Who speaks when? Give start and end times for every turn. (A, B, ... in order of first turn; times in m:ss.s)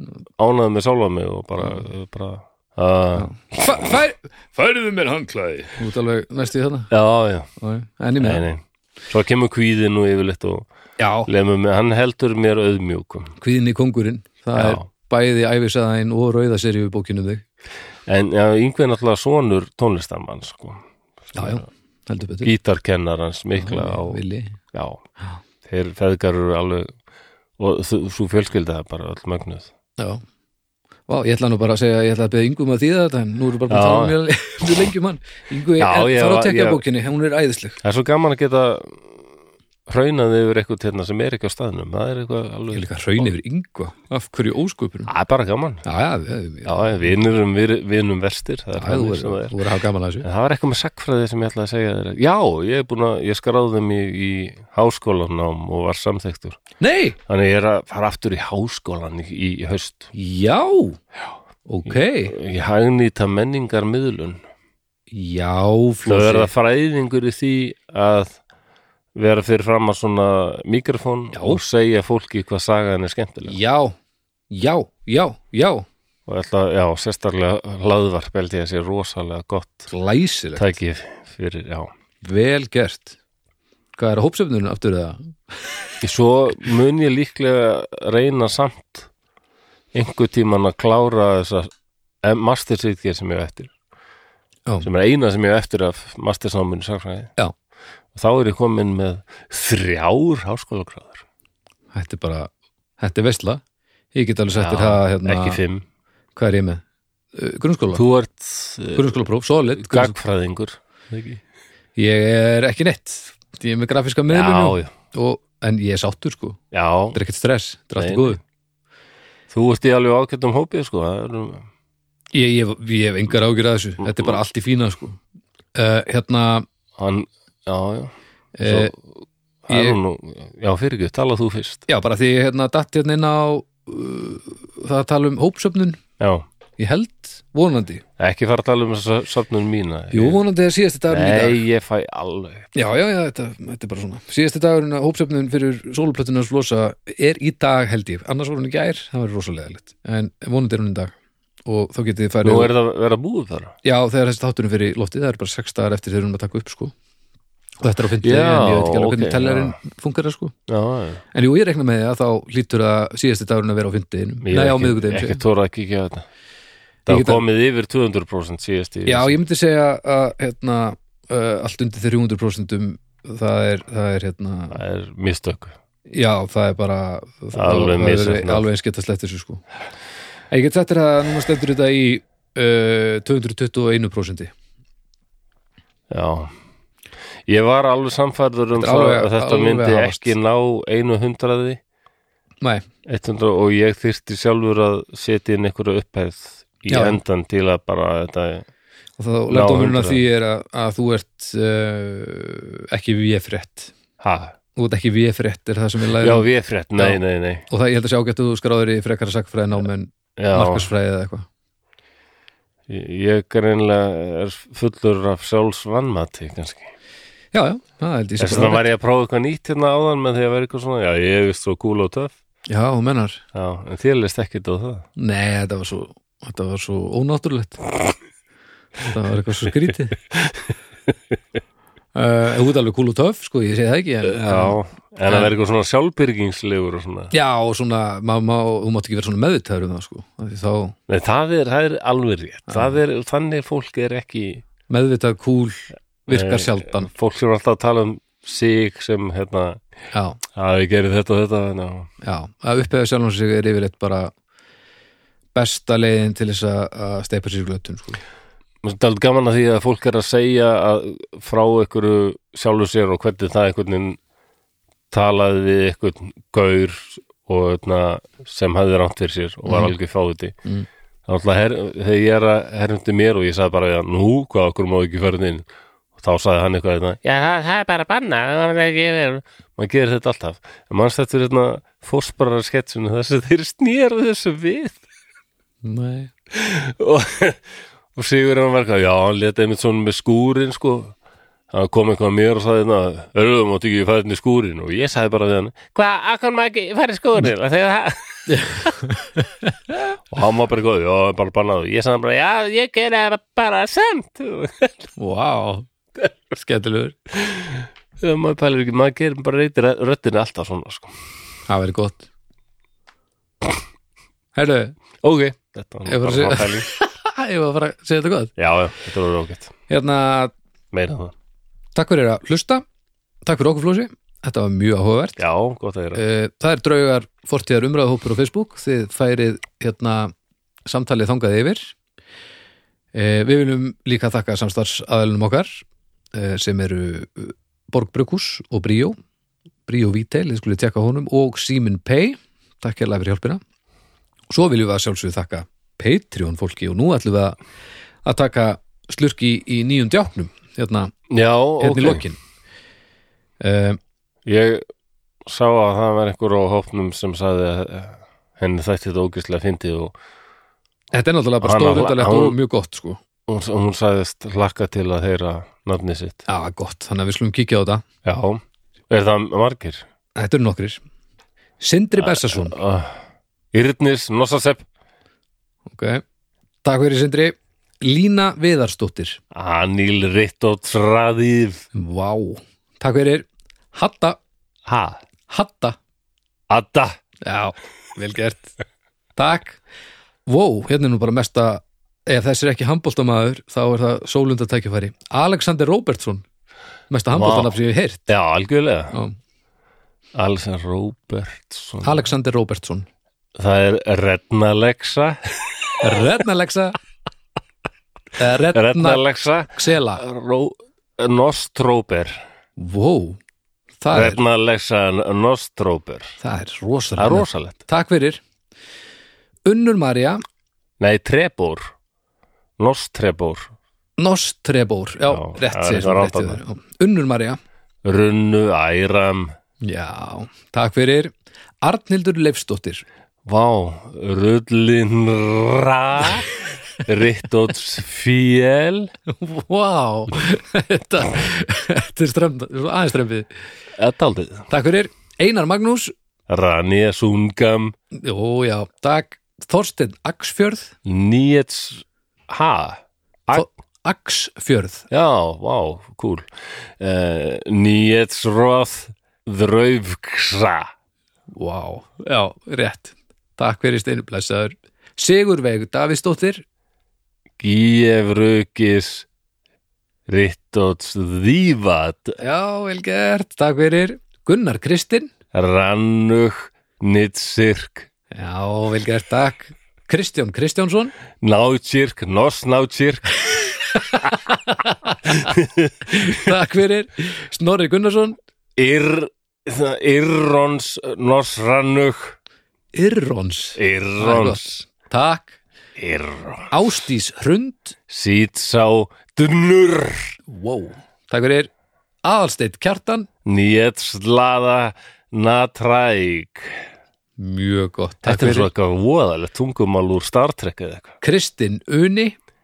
0:00.4-0:04.0 A
0:03.1-0:04.5 B
0:04.5-0:05.8 A
0:05.7-0:06.9 B
0:06.9-0:07.5 A
0:07.6-0:08.4 B
0:08.2-0:10.6 A
0:11.0-0:11.3 B
0:11.2-0:13.3 A
0:13.4-0:17.4 B
0:14.5-0:14.8 A
0:18.0-0:21.6 A
0:21.3-0:22.5 B
0:22.4-0:24.2 A
0:23.6-0:24.6 B
0:24.7-0:25.0 A
0:25.6-0:26.9 A
0:27.6-0:29.7 A
0:31.1-0:37.8 B
0:33.7-0:34.2 A
0:35.8-0:36.8 A
0:37.8-0:39.2 A
0:39.9-0:43.3 A
0:42.7-0:45.1 B
0:45.0-0:45.8 A
0:45.8-0:47.1 B
0:46.6-0:49.6 A
0:48.8-0:50.3 B
0:50.2-0:56.6 A
0:56.8-0:57.2 B
0:57.3-1:00.1 A
1:00.1-1:01.0 B
1:01.7-1:02.3 B
1:01.9-1:04.4 A
1:05.1-1:06.5 B
1:06.0-1:08.4 A
1:09.1-1:13.6 A
1:11.3-1:11.6 B
1:13.4-1:14.0 B
1:14.5-1:15.8 B
1:16.2-1:19.9 A
1:19.9-1:20.8 B
1:20.6-1:21.9 A
1:22.2-1:23.2 B
1:23.9-1:25.9 B
1:26.0-1:29.1 A
1:29.9-1:31.7 A
1:32.2-1:33.7 A
1:34.8-1:37.3 A
1:38.1-1:41.2 A
1:41.9-1:43.6 B
1:44.1-1:45.6 B
1:44.5-1:45.8 A
1:46.4-1:46.8 B
1:47.3-1:48.0 B
1:47.9-1:49.2 A
1:48.9-1:50.1 B
1:49.8-1:51.4 A
1:52.0-1:56.6 B
1:54.3-1:54.9 A
1:56.7-1:57.2 A
1:57.1-1:58.4 B
1:58.0-1:58.4 A
1:59.5-2:01.7 A
2:02.3-2:05.2 B
2:04.0-2:04.4 A
2:05.7-2:06.6 B
2:07.0-2:09.1 A
2:08.6-2:08.9 B
2:09.7-2:11.8 A
2:09.7-2:10.0 B
2:11.9-2:16.0 B
2:16.2-2:16.4 A
2:16.8-2:18.0 B
2:18.2-2:20.4 A
2:20.1-2:21.6 B
2:21.1-2:22.7 A
2:22.7-2:31.1 B
2:31.6-2:32.7 B
2:32.4-2:33.7 A
2:33.8-2:36.9 B
2:37.8-2:40.5 B
2:38.2-2:39.8 A
2:40.7-2:41.2 A
2:41.3-2:45.4 B
2:44.4-2:46.3 A
2:47.1-2:47.4 B
2:47.1-2:49.4 A
2:49.0-2:54.8 B
2:54.7-2:55.7 A
2:56.1-2:59.6 B
2:57.5-2:58.6 A
3:00.5-3:04.5 B
3:06.1-3:06.5 A
3:07.5-3:11.8 A
3:08.8-3:10.4 B
3:13.0-3:18.7 A
3:16.9-3:17.2 B
3:19.2-3:23.9 B
3:19.5-3:20.2 A
3:24.2-3:24.5 A
3:24.8-3:31.5 B
3:26.2-3:27.6 A
3:30.4-3:30.9 A
3:32.9-3:36.9 A
3:37.5-3:38.8 B
3:38.4-3:42.3 A
3:42.7-3:43.4 B
3:43.5-3:45.0 A
3:45.2-3:48.1 B
3:49.0-3:50.2 B
3:52.1-3:55.5 B
3:54.2-3:57.3 A
3:57.3-4:01.0 B
4:01.1-4:04.6 A
4:02.7-4:03.0 B
4:04.9-4:07.1 B
4:06.3-4:09.8 A
4:10.1-4:10.4 B
4:10.5-4:12.1 A
4:12.2-4:14.3 B
4:15.5-4:18.2 B
4:18.8-4:24.2 A
4:25.1-4:30.5 A
4:29.6-4:29.9 B
4:31.3-4:45.0 A
4:45.8-4:46.3 B
4:46.5-4:47.6 A
4:48.1-4:51.1 A
4:51.7-4:58.9 A
4:58.5-4:59.9 B
5:00.3-5:05.1 A
5:05.2-5:05.9 B
5:06.5-5:07.2 B
5:07.3-5:11.2 A
5:11.7-5:12.2 B
5:14.5-5:15.0 B
5:15.2-5:16.9 A
5:16.0-5:18.5 B
5:18.6-5:19.7 A
5:19.9-5:20.5 B
5:20.9-5:21.3 A
5:21.9-5:22.8 B
5:23.4-5:25.4 B
5:25.4-5:26.2 A
5:26.1-5:30.3 B
5:30.8-5:31.9 B
5:33.1-5:39.2 B
5:39.9-5:43.6 B
5:44.5-5:47.6 B
5:48.2-5:51.1 B
5:51.3-5:52.2 A
5:51.8-5:52.4 B
5:53.6-5:54.0 B
5:54.4-5:54.8 A
5:55.4-6:00.1 A
6:01.1-6:03.2 B
6:01.6-6:02.6 A
6:03.5-6:06.4 A
6:06.5-6:08.0 B
6:08.2-6:10.0 A
6:10.4-6:11.0 B
6:11.8-6:12.8 B
6:12.2-6:14.8 A
6:15.9-6:16.2 B
6:16.8-6:19.4 B
6:19.5-6:21.9 A
6:21.9-6:24.4 B
6:24.8-6:25.2 A
6:25.5-6:26.0 B
6:26.7-6:27.2 A
6:27.4-6:28.8 B
6:29.4-6:29.8 B
6:30.4-6:36.4 B
6:37.1-6:38.3 B
6:37.3-6:37.8 A
6:38.3-6:39.1 A
6:40.3-6:42.3 A
6:42.0-6:43.0 B
6:43.6-6:46.3 A
6:46.0-6:47.0 B
6:48.4-6:50.2 B
6:48.7-6:52.3 A
6:52.8-6:53.4 B
6:54.0-6:54.4 B
6:54.1-6:56.4 A
6:56.4-6:58.4 B
6:57.2-6:57.8 A
6:59.6-7:00.4 B
7:01.0-7:01.9 A
7:02.8-7:03.7 A
7:04.2-7:07.6 B
7:05.3-7:06.6 A
7:08.0-7:09.5 A
7:09.8-7:13.0 B
7:13.4-7:19.1 A
7:19.3-7:23.5 B
7:24.0-7:24.7 A
7:24.7-7:26.1 B
7:26.5-7:27.9 A
7:28.1-7:30.9 B
7:31.0-7:33.6 A
7:33.5-7:35.1 B
7:35.1-7:40.9 A
7:41.5-7:46.6 B
7:47.6-7:49.3 A
7:50.3-7:52.4 A
7:52.4-7:55.3 B
7:55.5-7:58.1 A
7:58.3-8:01.1 B
8:01.4-8:04.5 A
8:03.9-8:05.5 B
8:05.2-8:06.5 A
8:06.1-8:08.4 B
8:08.8-8:12.4 A
8:12.9-8:15.6 B
8:13.8-8:14.6 A
8:16.0-8:16.7 A
8:16.7-8:18.0 B
8:18.1-8:20.3 A
8:20.5-8:21.7 B
8:22.2-8:23.3 B
8:23.4-8:26.8 A
8:27.4-8:28.7 B
8:28.2-8:31.1 A
8:31.2-8:32.3 B